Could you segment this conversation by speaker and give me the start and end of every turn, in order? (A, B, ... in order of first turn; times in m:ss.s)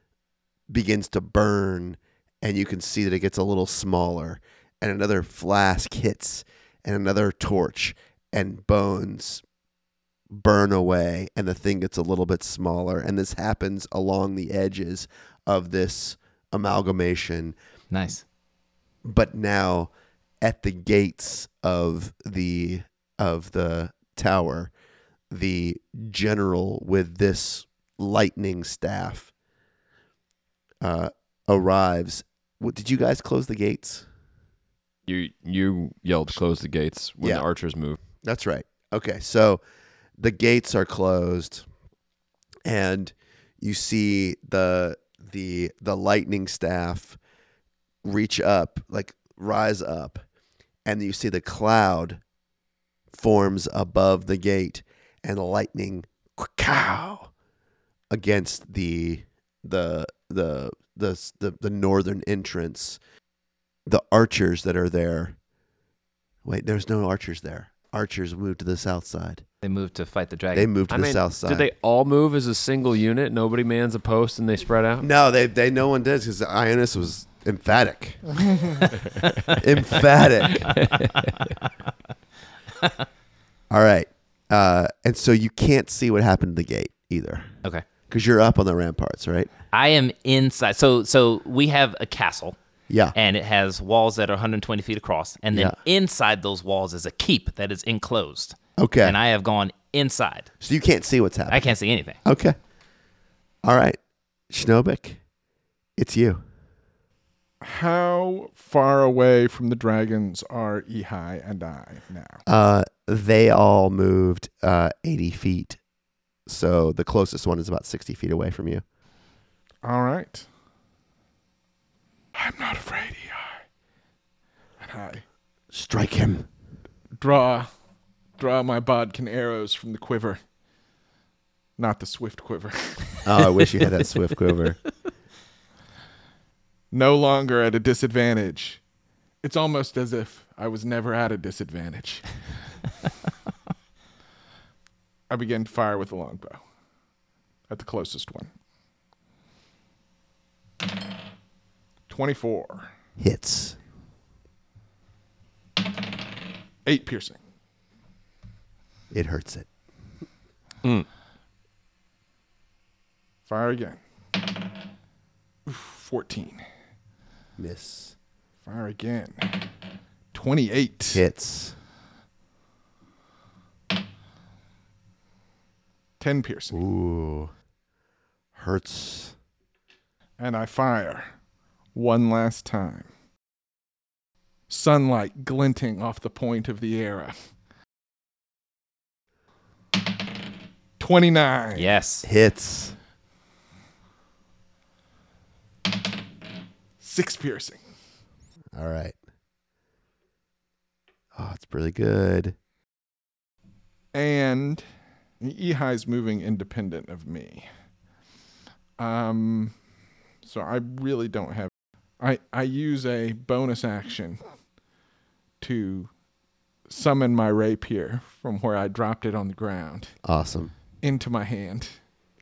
0:00.7-0:09.4 A
0:10.3-0:17.6 A
0:17.9-0:18.2 B
0:19.0-0:24.7 A
0:25.3-0:29.3 A
0:30.8-0:34.1 A
0:35.1-0:38.0 C
0:38.2-0:39.6 A
0:40.2-0:41.7 A
0:42.6-0:47.2 A
0:48.0-0:50.2 A
0:50.8-0:52.2 A
0:53.1-0:57.3 A
0:58.1-1:03.0 A
1:03.9-1:05.4 A
1:06.4-1:09.4 A
1:09.6-1:10.7 B
1:10.5-1:11.7 A
1:10.9-1:15.1 C
1:15.0-1:18.2 A
1:19.5-1:20.8 A
1:20.8-1:21.4 C
1:23.7-1:27.5 A
1:28.1-1:29.5 A
1:29.7-1:32.6 B
1:32.9-1:33.2 A
1:33.1-1:40.5 B
1:38.8-1:39.2 A
1:40.6-1:41.7 A
1:41.5-1:42.2 B
1:42.2-1:42.6 A
1:43.6-1:44.0 A
1:44.5-1:45.2 A
1:46.0-1:46.4 A
1:47.6-1:52.4 D
1:52.5-1:55.8 A
1:56.5-1:58.8 A
1:59.8-2:00.5 D
2:02.4-2:03.6 D
2:04.8-2:05.2 D
2:05.7-2:06.5 A
2:07.2-2:07.7 D
2:08.4-2:10.4 D
2:11.8-2:13.1 D
2:13.3-2:14.8 A
2:16.9-2:18.8 D
2:19.4-2:22.2 D
2:25.3-2:26.6 D
2:27.7-2:28.5 D
2:32.1-2:32.9 D
2:33.2-2:33.8 A
2:36.8-2:37.4 D
2:39.1-2:39.7 A
2:43.5-2:44.0 D
2:45.7-2:46.6 D
2:47.6-2:48.2 A
2:48.6-2:49.5 D
2:50.3-2:51.2 D
2:51.1-2:51.8 A
2:56.2-2:56.8 D
2:56.7-2:57.5 A
2:58.6-2:59.4 A
3:00.4-3:01.3 D
3:01.9-3:03.1 D
3:04.7-3:07.4 D
3:11.0-3:11.9 D
3:11.8-3:12.3 B
3:12.2-3:13.0 A
3:17.0-3:17.8 D
3:18.7-3:19.2 A
3:21.4-3:22.6 A
3:24.1-3:24.8 D
3:25.4-3:27.7 D
3:29.0-3:29.7 D
3:30.4-3:34.4 D
3:35.6-3:36.1 D
3:36.9-3:40.1 D
3:40.2-3:40.7 A
3:41.0-3:42.0 D